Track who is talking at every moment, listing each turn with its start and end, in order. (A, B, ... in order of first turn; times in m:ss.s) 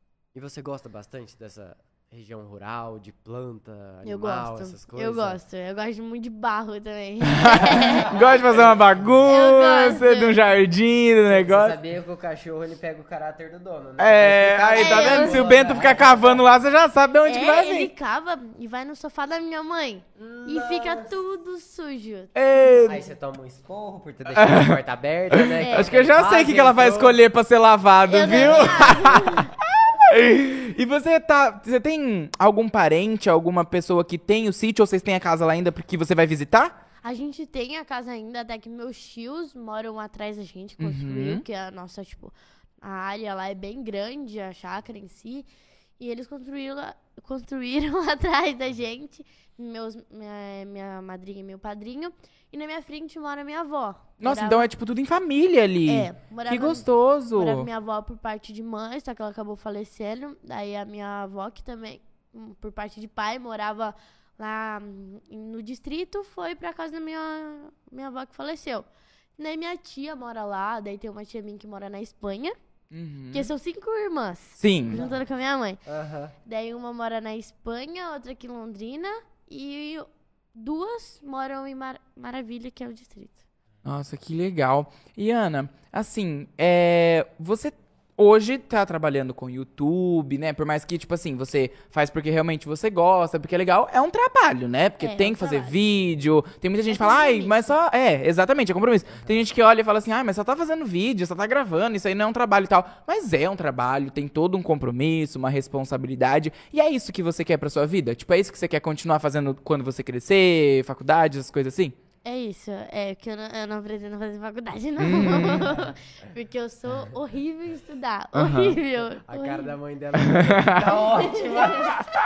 0:00.3-0:05.4 A
0:04.0-0:08.3 B
0:07.3-0:11.8 C
0:07.7-0:09.1 A
0:09.2-0:10.4 B
0:11.3-0:16.4 A
0:14.0-0:17.9 C
0:14.7-0:15.5 B
0:17.2-0:22.8 B
0:20.2-0:21.1 A
0:22.3-0:23.0 C
0:22.8-0:27.2 A
0:24.4-0:24.8 C
0:25.3-0:36.7 C
0:25.6-0:25.9 B
0:28.1-0:29.5 B
0:28.4-0:28.9 A
0:37.0-0:45.4 B
0:40.8-0:41.4 C
0:46.0-0:54.7 B
0:54.2-0:57.7 C
0:55.8-1:08.8 B
1:09.4-1:12.5 B
1:12.9-1:13.5 C
1:13.3-1:15.8 B
1:14.6-1:15.0 C
1:14.9-1:15.2 A
1:15.8-1:16.3 A
1:16.4-1:23.4 B
1:23.8-1:51.9 C
1:35.0-1:35.8 B
1:36.9-1:37.7 B
1:52.2-1:59.7 B
1:55.0-1:55.8 C
1:58.3-1:58.8 C
1:59.2-2:02.1 A
2:00.2-2:01.0 C
2:01.0-2:02.0 B